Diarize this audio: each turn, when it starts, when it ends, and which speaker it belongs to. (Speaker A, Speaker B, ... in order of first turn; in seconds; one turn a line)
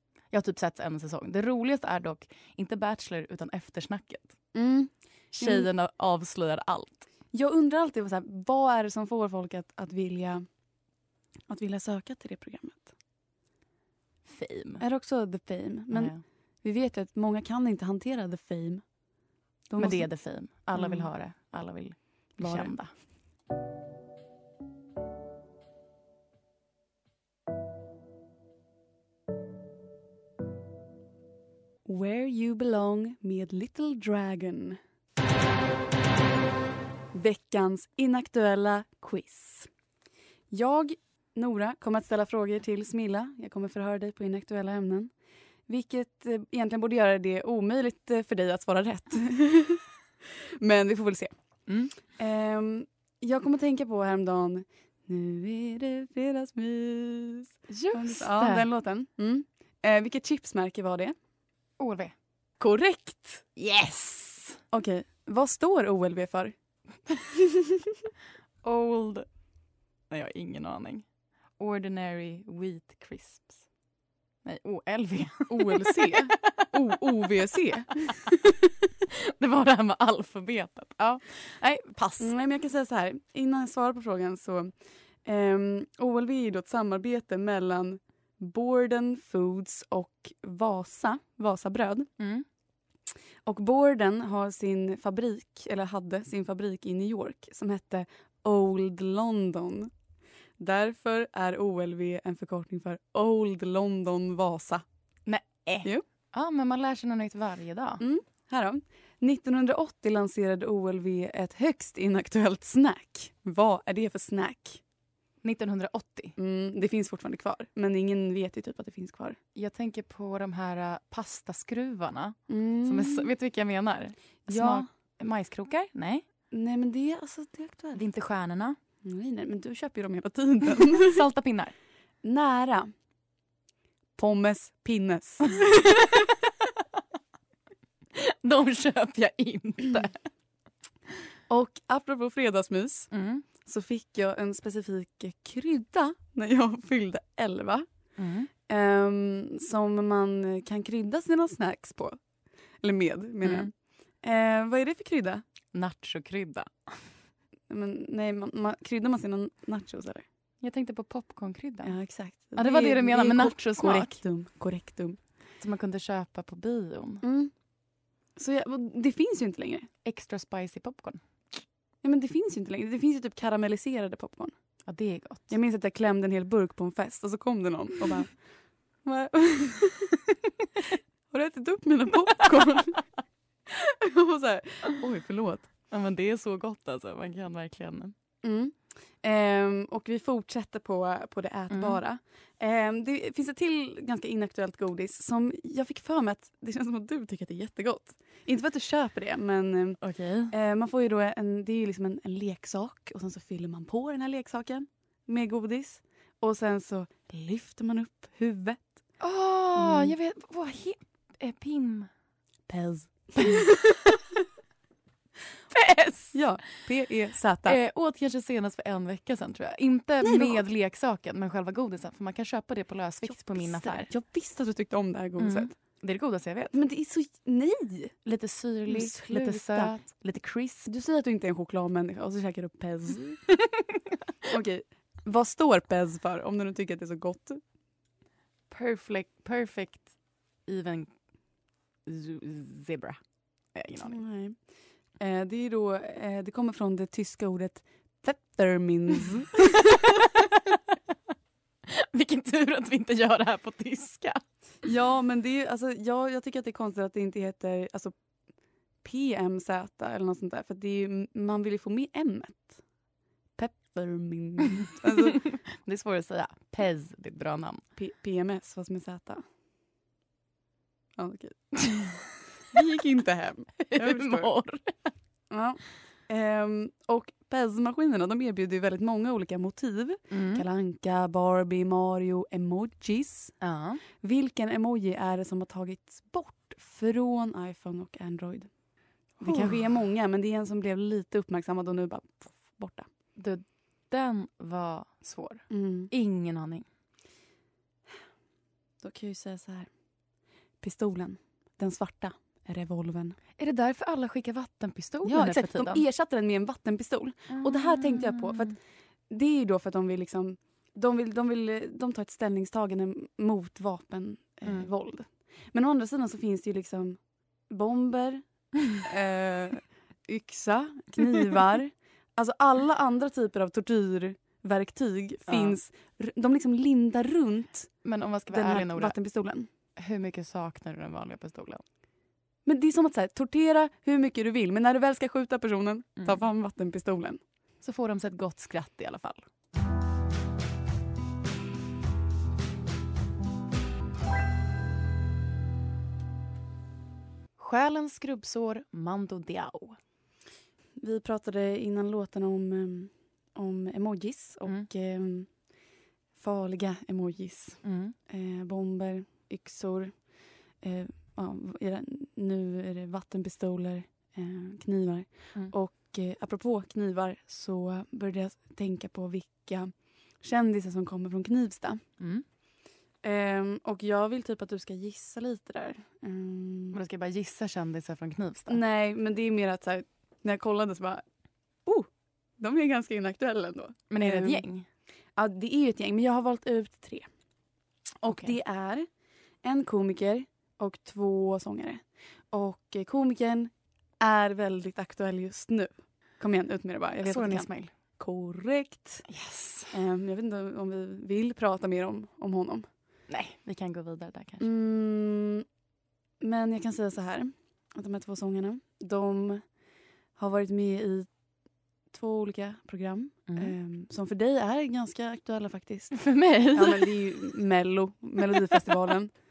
Speaker A: 0.3-4.3
Speaker B: 4.5-5.7
Speaker A: 5.3-7.1
Speaker B: 7.3-10.4
Speaker B: 11.5-12.9
Speaker A: 14.2-14.8
Speaker B: 14.8-16.1
Speaker A: 15.9-16.2
Speaker B: 16.6-18.8
Speaker B: 19.7-20.1
Speaker A: 19.8-22.9
Speaker B: 20.7-21.1
Speaker B: 22.4-22.7
Speaker B: 31.9-34.8
Speaker B: 37.1-39.7
Speaker B: 40.5-45.1
Speaker B: 45.7-49.8
Speaker B: 50.6-51.3
Speaker A: 51.7-51.9
Speaker B: 52.2-61.1
Speaker A: 57.7-58.6
Speaker A: 61.8-62.1
Speaker B: 62.6-63.4
Speaker A: 63.5-64.6
Speaker B: 64.7-66.5
Speaker A: 68.6-69.3
Speaker A: 70.1-71.0
Speaker A: 71.6-73.6
Speaker A: 74.4-76.7
Speaker B: 75.5-78.3
Speaker A: 79.1-82.3
Speaker B: 82.2-84.7
Speaker B: 85.2-92.1
Speaker A: 92.2-92.4
Speaker B: 93.5-99.9
Speaker B: 100.6-104.8
Speaker A: 105.2-108.0
Speaker B: 108.0-114.8
Speaker A: 115.4-116.3
Speaker B: 116.4-119.4
Speaker A: 119.5-126.2
Speaker B: 122.5-123.3
Speaker B: 124.5-124.9
Speaker B: 126.5-128.0
Speaker A: 127.9-128.8
Speaker B: 129.0-131.2
Speaker A: 130.8-131.7
Speaker B: 132.2-132.9
Speaker B: 134.2-136.2
Speaker A: 138.2-140.2
Speaker B: 141.5-143.1
Speaker A: 143.1-143.4
Speaker B: 143.6-147.8
Speaker A: 148.2-148.5
Speaker B: 148.7-152.2
Speaker B: 152.8-153.7
Speaker A: 153.4-153.7
Speaker B: 154.2-155.4
Speaker A: 155.7-157.0
Speaker B: 157.7-160.2
Speaker A: 160.6-161.9
Speaker B: 161.8-165.2
Speaker A: 162.6-164.2
Speaker A: 165.6-167.2
Speaker B: 167.2-167.5
Speaker B: 168.3-169.9
Speaker A: 170.0-171.2
Speaker B: 172.0-174.5
Speaker A: 174.9-175.5
Speaker B: 175.5-178.3
Speaker B: 179.0-180.2
Speaker B: 181.3-183.0
Speaker B: 183.7-185.7
Speaker A: 185.9-188.1
Speaker B: 188.4-200.0
Speaker A: 191.7-192.0
Speaker A: 200.0-200.5
Speaker B: 200.5-208.9
Speaker A: 209.2-212.1
Speaker B: 209.8-210.1
Speaker B: 212.7-213.9
Speaker A: 212.7-213.7
Speaker A: 215.7-216.4
Speaker B: 216.3-217.8
Speaker A: 217.6-224.1
Speaker B: 220.2-220.6
Speaker B: 223.2-225.7
Speaker A: 225.4-226.7
Speaker B: 226.7-228.2
Speaker A: 228.2-230.9
Speaker B: 228.9-229.9
Speaker B: 230.8-233.4
Speaker B: 234.4-237.6
Speaker A: 238.7-240.1
Speaker A: 240.7-241.1
Speaker A: 242.1-243.2
Speaker A: 243.7-244.2
Speaker B: 244.0-244.6
Speaker B: 245.2-250.1
Speaker A: 251.9-254.4
Speaker B: 254.8-258.1
Speaker B: 259.0-262.8
Speaker B: 263.6-265.4
Speaker A: 265.8-267.8
Speaker B: 267.9-269.4
Speaker B: 271.2-272.1
Speaker B: 272.7-274.5
Speaker A: 273.8-274.9
Speaker B: 275.5-283.6
Speaker A: 280.3-280.6
Speaker A: 283.6-284.0
Speaker B: 284.2-288.7
Speaker B: 289.4-293.1
Speaker A: 289.4-289.8
Speaker A: 293.4-296.8
Speaker B: 295.7-296.1
Speaker B: 299.0-299.9
Speaker B: 300.8-303.4
Speaker A: 303.6-306.0
Speaker B: 305.2-308.8
Speaker A: 307.5-308.7
Speaker B: 309.3-317.2
Speaker B: 317.7-318.4
Speaker B: 319.0-327.9
Speaker A: 325.5-325.8
Speaker A: 328.0-329.1
Speaker B: 328.5-329.7
Speaker A: 330.0-331.8
Speaker B: 332.6-337.4
Speaker A: 337.8-339.4
Speaker A: 347.6-349.9
Speaker B: 351.0-355.5
Speaker B: 356.4-360.3
Speaker A: 357.8-358.1
Speaker B: 360.8-372.0
Speaker B: 373.2-377.0
Speaker A: 376.9-378.8
Speaker B: 378.7-381.2
Speaker B: 382.6-384.6
Speaker A: 384.1-384.9
Speaker B: 385.4-387.3
Speaker B: 388.2-389.1
Speaker A: 388.2-388.5
Speaker B: 389.6-392.0
Speaker B: 392.5-397.7
Speaker A: 397.2-397.9
Speaker B: 398.2-399.2
Speaker A: 399.3-399.9
Speaker B: 399.9-402.9
Speaker A: 403.3-404.6
Speaker B: 404.6-405.6
Speaker B: 406.4-409.6
Speaker B: 410.4-411.3
Speaker B: 412.1-416.2
Speaker A: 416.1-417.1
Speaker B: 416.7-419.3